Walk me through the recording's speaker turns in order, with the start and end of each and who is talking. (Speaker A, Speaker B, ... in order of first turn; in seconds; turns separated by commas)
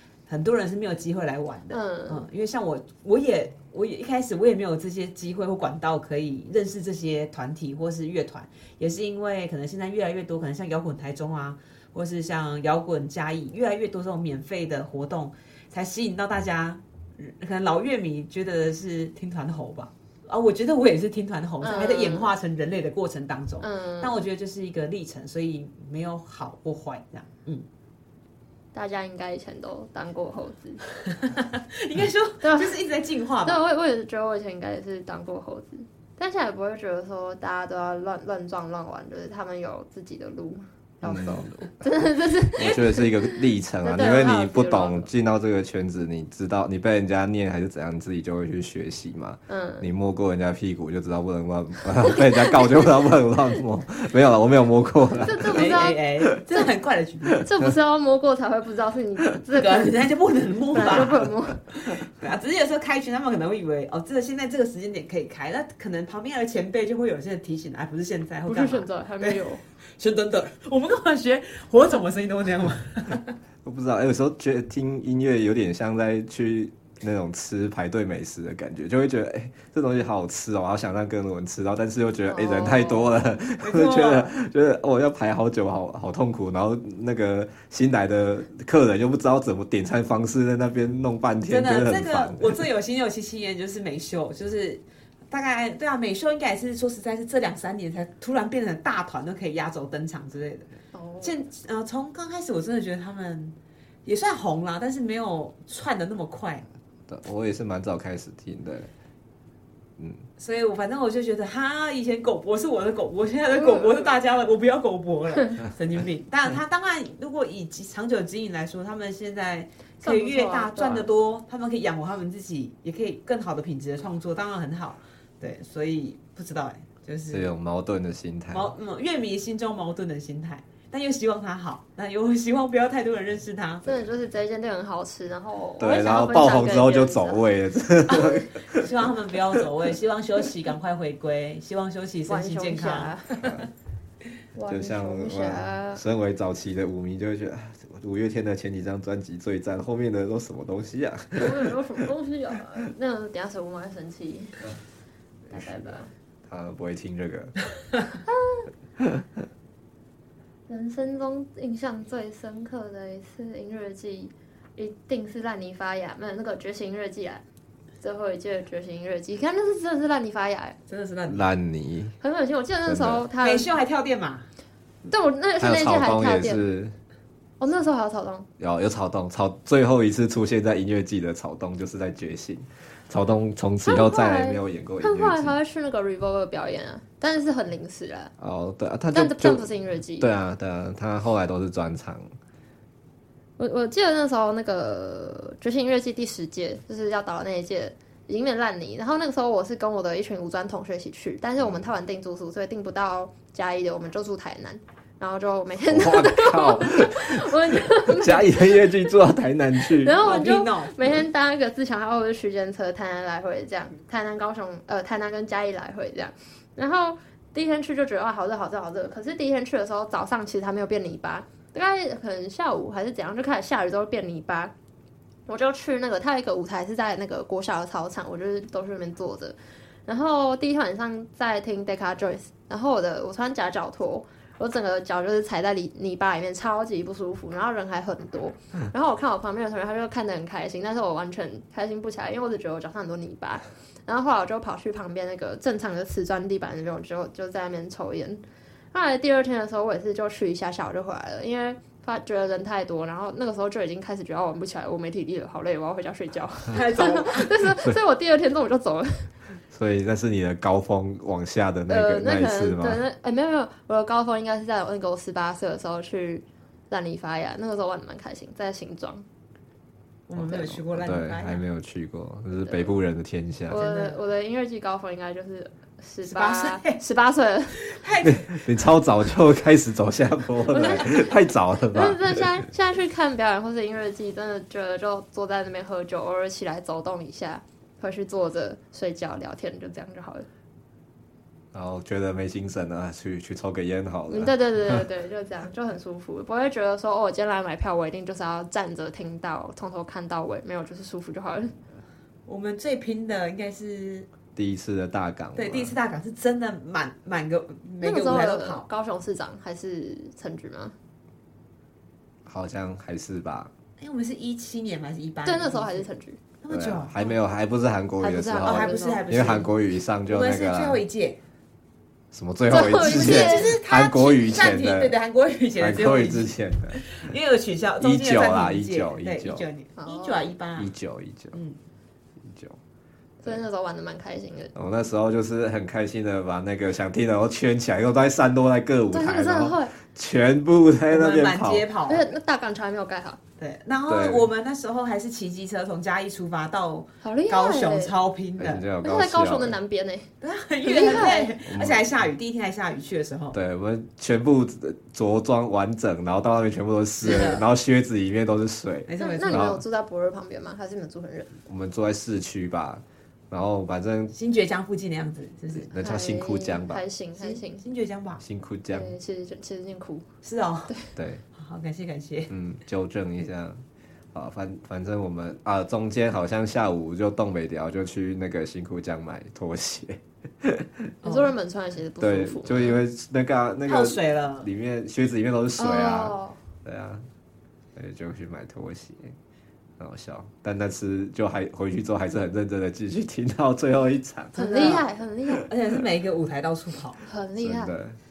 Speaker A: 0.3-27.6, Speaker B: 1.7-2.2, Speaker B: 21.6-22.3, Speaker B: 23.6-24.1, Speaker B: 28.7-30.8, Speaker A: 31.2-33.6, Speaker B: 32.4-32.8, Speaker B: 33.4-45.1, Speaker C: 41.0-41.6, Speaker C: 42.5-56.2, Speaker B: 49.5-49.9, Speaker B: 52.1-52.9, Speaker B: 55.1-56.7, Speaker A: 55.5-57.5, Speaker C: 57.3-57.7, Speaker B: 57.4-60.0, Speaker A: 59.5-73.3, Speaker B: 60.7-61.7, Speaker B: 68.5-69.6, Speaker C: 73.6-92.6, Speaker B: 82.3-83.1, Speaker A: 83.6-84.3, Speaker A: 91.5-100.7, Speaker B: 100.9-101.4, Speaker A: 101.2-106.7, Speaker C: 107.1-108.9, Speaker C: 110.0-110.3, Speaker A: 110.4-127.5, Speaker B: 120.0-121.1, Speaker C: 127.3-128.7, Speaker A: 128.5-133.9, Speaker B: 133.9-137.4, Speaker C: 135.8-139.6, Speaker A: 138.1-143.6, Speaker B: 142.3-143.5, Speaker C: 143.4-143.7, Speaker B: 144.6-146.0, Speaker C: 144.7-151.7, Speaker B: 151.4-154.7, Speaker C: 155.5-155.9, Speaker B: 155.5-156.1, Speaker C: 156.4-157.6, Speaker B: 158.3-158.7, Speaker B: 160.7-167.4, Speaker B: 168.0-170.8, Speaker A: 170.9-171.4, Speaker C: 171.3-172.2, Speaker B: 172.2-173.7, Speaker C: 172.8-173.2, Speaker A: 173.4-174.5, Speaker B: 175.1-176.6, Speaker C: 175.6-176.9, Speaker B: 177.6-178.5, Speaker C: 178.6-185.6, Speaker B: 183.8-188.3, Speaker C: 188.4-189.7, Speaker B: 189.1-190.3, Speaker C: 190.2-192.3, Speaker B: 193.6-209.1, Speaker C: 201.6-201.9, Speaker C: 205.9-210.2, Speaker B: 209.9-224.7, Speaker A: 210.2-211.2, Speaker B: 225.5-259.3, Speaker A: 256.7-257.6, Speaker C: 259.7-263.0, Speaker B: 261.9-269.2, Speaker A: 270.3-271.6, Speaker C: 270.4-273.8, Speaker B: 273.7-277.8, Speaker A: 273.7-274.2, Speaker A: 276.2-277.0, Speaker A: 277.8-278.6, Speaker C: 278.2-282.6, Speaker B: 280.7-281.3, Speaker B: 281.9-290.5, Speaker C: 291.7-295.1, Speaker B: 294.3-301.8, Speaker A: 302.5-304.3, Speaker C: 304.6-305.9, Speaker A: 305.6-308.9, Speaker B: 308.0-310.9, Speaker C: 312.4-313.7, Speaker A: 314.0-316.1, Speaker B: 315.4-316.4, Speaker A: 316.6-317.3, Speaker C: 316.7-321.0, Speaker B: 318.2-319.2, Speaker A: 318.6-319.7, Speaker A: 320.3-321.4, Speaker C: 322.3-325.1, Speaker B: 322.7-323.7, Speaker A: 323.0-330.9, Speaker C: 325.8-327.2, Speaker C: 328.0-329.6, Speaker B: 330.0-330.5, Speaker C: 330.8-331.6, Speaker C: 332.4-332.8, Speaker B: 333.4-334.7, Speaker C: 334.7-341.9, Speaker B: 339.1-339.9, Speaker A: 341.1-342.2, Speaker B: 342.1-343.4, Speaker A: 343.6-348.9, Speaker C: 344.1-344.5, Speaker B: 347.2-348.1, Speaker C: 348.6-349.8, Speaker B: 349.0-350.3, Speaker A: 350.4-353.6, Speaker B: 350.8-351.5, Speaker C: 351.6-352.1, Speaker C: 353.5-359.8, Speaker A: 357.2-357.7, Speaker A: 359.1-359.7, Speaker B: 359.2-361.6, Speaker C: 361.6-364.3, Speaker A: 364.3-365.9, Speaker C: 365.8-367.0, Speaker B: 366.0-367.9, Speaker A: 367.4-368.4, Speaker C: 368.4-369.1, Speaker B: 368.9-370.2, Speaker A: 370.4-370.9, Speaker C: 371.2-371.4, Speaker A: 371.5-372.5, Speaker C: 372.5-381.1, Speaker A: 381.2-381.5, Speaker B: 381.2-383.0, Speaker C: 382.2-387.2, Speaker A: 383.9-384.7, Speaker B: 385.8-386.6, Speaker C: 387.9-389.4, Speaker C: 390.0-394.9, Speaker A: 394.6-395.1, Speaker B: 394.6-395.7, Speaker A: 395.6-397.2, Speaker B: 397.2-397.9, Speaker C: 397.6-398.2